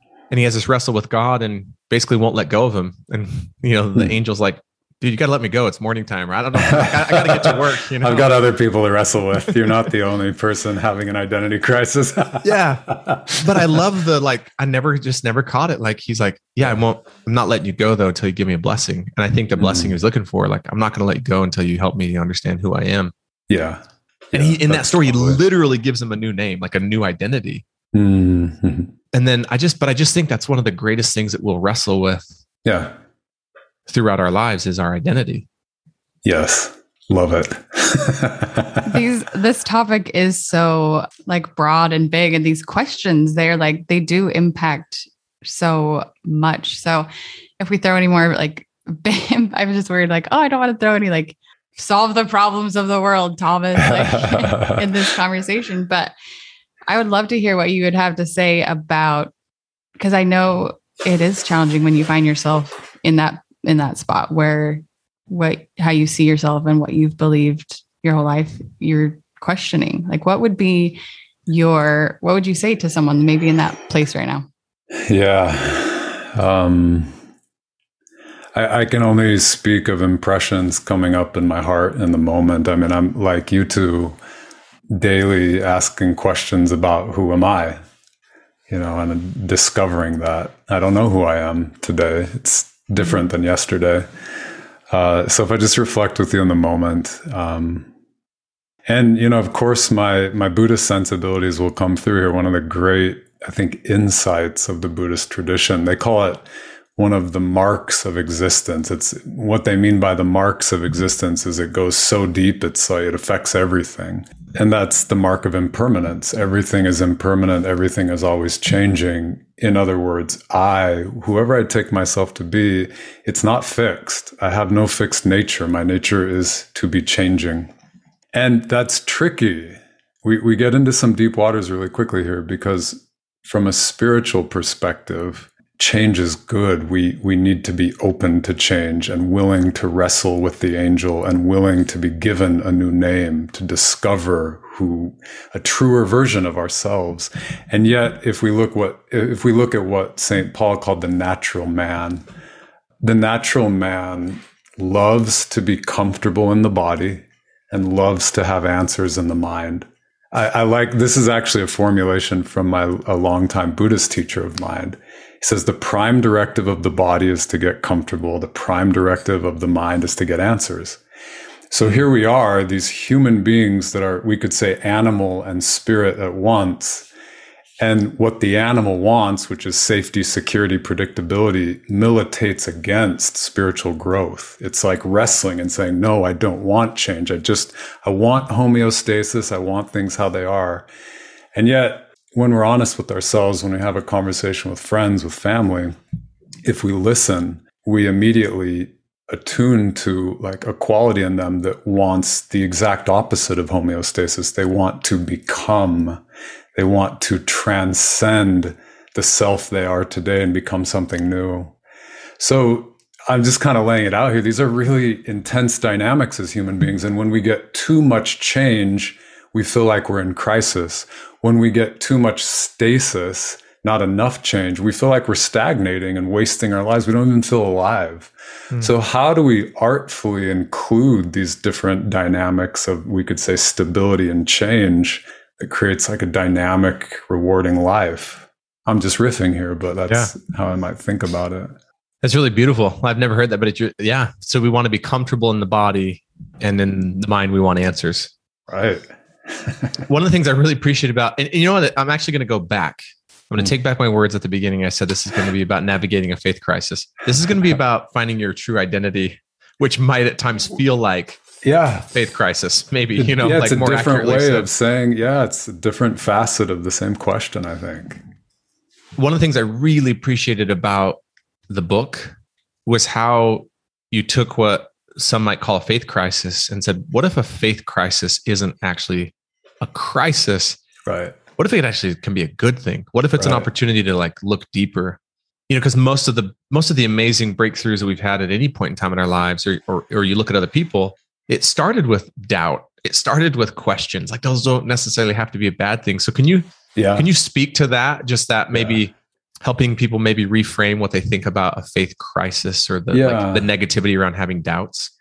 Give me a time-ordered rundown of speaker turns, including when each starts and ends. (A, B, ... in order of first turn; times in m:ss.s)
0:00.3-0:08.5 A
0:06.7-0:13.8 B
0:12.4-0:23.1 A
0:19.6-0:19.9 B
0:23.5-0:25.4 B
0:24.3-0:27.6 A
0:27.9-0:28.9 B
0:29.1-0:32.3 A
0:32.6-0:32.9 B
0:33.9-0:35.5 A
0:36.2-0:39.0 B
0:38.8-0:47.1 C
0:47.6-0:56.1 C
0:53.8-0:54.9 B
0:56.9-0:59.3 C
1:00.0-1:14.5 C
1:15.0-1:17.1 B
1:18.5-1:24.2 B
1:24.9-1:27.8 B
1:28.7-1:34.1 B
1:34.9-1:37.9 B
1:38.9-2:07.7 B
2:08.3-2:32.2 B
2:33.0-2:51.0 B
2:51.7-2:57.1 B
2:57.8-3:10.9 B
3:11.6-3:16.0 B
3:16.6-3:26.2 B
3:26.8-3:31.8 B
3:32.4-4:01.8 B
4:02.2-4:08.3 A
4:08.7-4:10.0 B
4:10.1-4:21.4 A
4:21.6-4:22.1 B
4:22.1-4:24.7 A
4:23.2-4:28.2 B
4:29.2-4:32.3 A
4:32.9-4:40.8 A
4:41.1-4:41.4 B
4:41.6-5:05.1 A
4:43.4-4:43.7 B
4:57.0-4:57.3 B
5:03.1-5:03.7 B